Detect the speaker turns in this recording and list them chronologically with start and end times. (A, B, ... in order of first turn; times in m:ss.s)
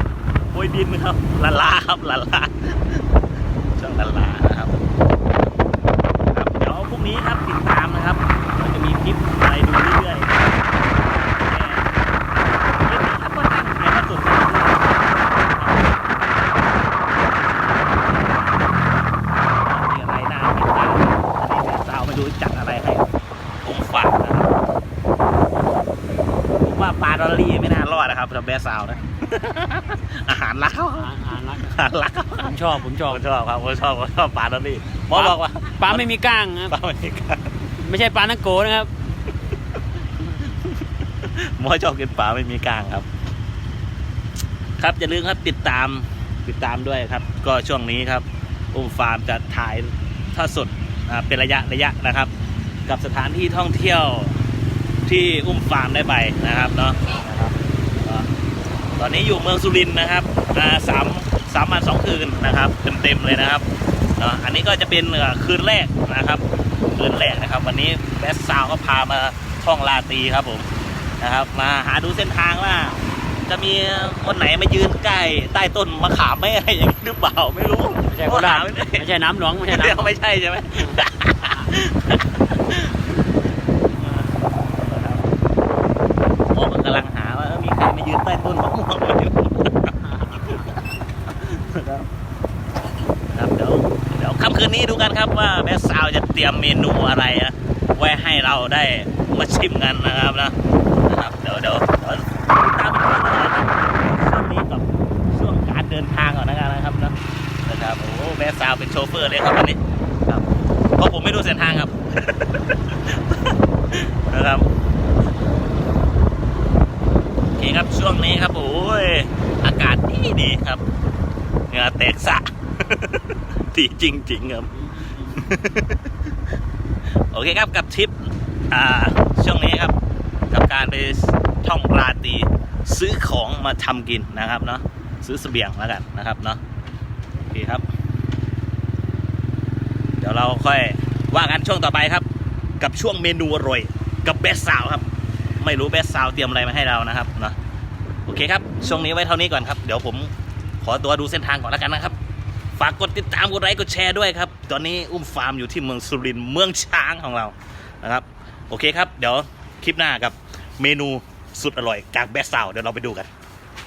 0:00.5-0:03.1 A
0:03.8-0:04.8 A
0:06.3-0:11.9 A
0:12.8-0:23.1 A
0:23.6-0:24.6 A
0:26.6-0:36.1 A
0:31.0-0:31.8 B
0:32.4-0:33.2 B
0:35.1-0:36.8 B
0:36.7-0:37.6 A
0:37.8-0:38.9 B
0:40.3-0:43.1 A
0:44.8-0:52.3 A
0:52.9-0:54.4 A
0:55.1-0:58.3 A
0:59.0-1:03.6 A
1:04.2-1:10.7 A
1:11.2-1:19.1 A
1:18.1-1:20.1 B
1:19.7-1:23.2 A
1:24.0-1:25.2 A
1:26.5-1:32.1 A
1:30.2-1:30.6 B
1:33.3-1:40.6 A
1:41.1-1:47.2 A
1:47.7-1:50.5 A
1:51.0-1:54.7 A
1:57.6-2:00.8 A
2:01.7-2:06.0 A
2:05.1-2:05.4 B
2:07.3-2:08.2 A
2:08.7-2:09.9 A
2:10.5-2:16.6 A
2:17.5-2:17.8 A
2:20.2-2:22.3 A
2:22.8-2:25.1 A
2:25.6-2:27.6 A
2:28.3-2:30.3 A
2:30.8-2:32.2 A
2:32.8-2:43.3 A